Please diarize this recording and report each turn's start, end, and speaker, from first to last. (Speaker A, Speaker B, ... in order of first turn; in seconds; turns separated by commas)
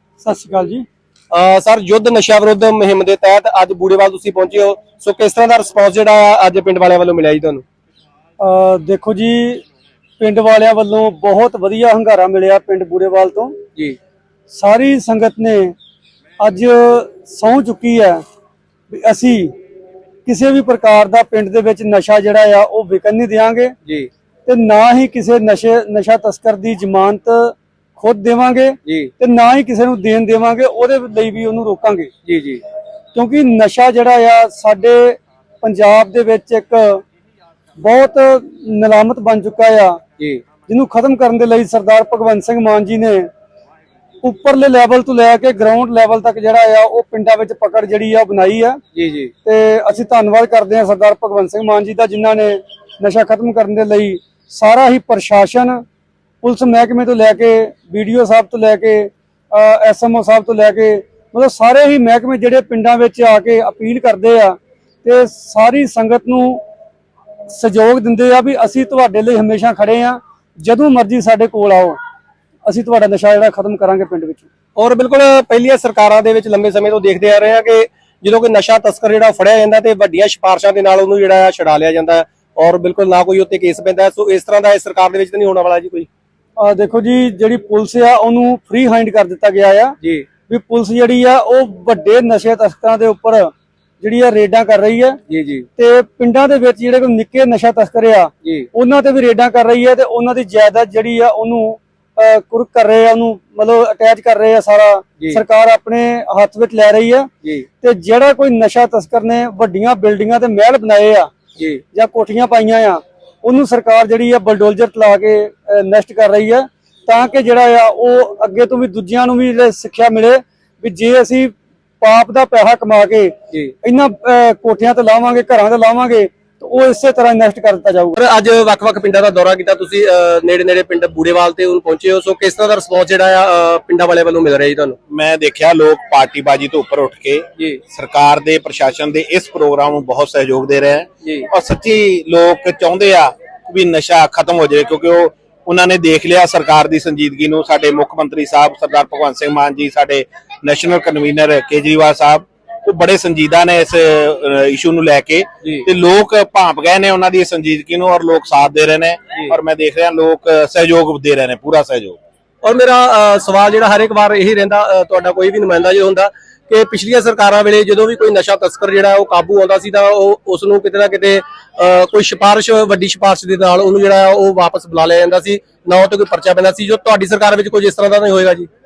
Speaker A: 0.2-0.8, Speaker B: 1.3-7.7, Speaker A: 8.4-9.6, Speaker A: 10.2-13.6, Speaker A: 14.5-15.8, Speaker A: 16.4-18.2, Speaker A: 18.9-19.5, Speaker A: 20.3-23.8, Speaker B: 23.9-24.1, Speaker A: 24.5-32.1, Speaker B: 28.9-29.1, Speaker B: 32.2-32.6, Speaker A: 33.1-37.0, Speaker A: 37.8-40.0, Speaker B: 40.2-40.4, Speaker A: 40.7-43.3, Speaker A: 44.2-48.8, Speaker B: 48.9-49.3, Speaker A: 49.5-55.8, Speaker A: 56.4-66.6, Speaker A: 67.5-72.0, Speaker A: 72.7-74.5, Speaker B: 74.8-86.1, Speaker A: 86.6-90.0, Speaker B: 90.0-90.3, Speaker A: 90.5-95.2, Speaker B: 95.3-95.7, Speaker A: 95.8-107.3, Speaker B: 98.4-98.7, Speaker B: 107.4-107.7, Speaker A: 107.8-111.3, Speaker B: 111.6-111.8, Speaker A: 111.9-128.2, Speaker B: 128.2-135.0, Speaker C: 135.1-162.2, Speaker B: 141.2-141.5, Speaker B: 162.6-178.7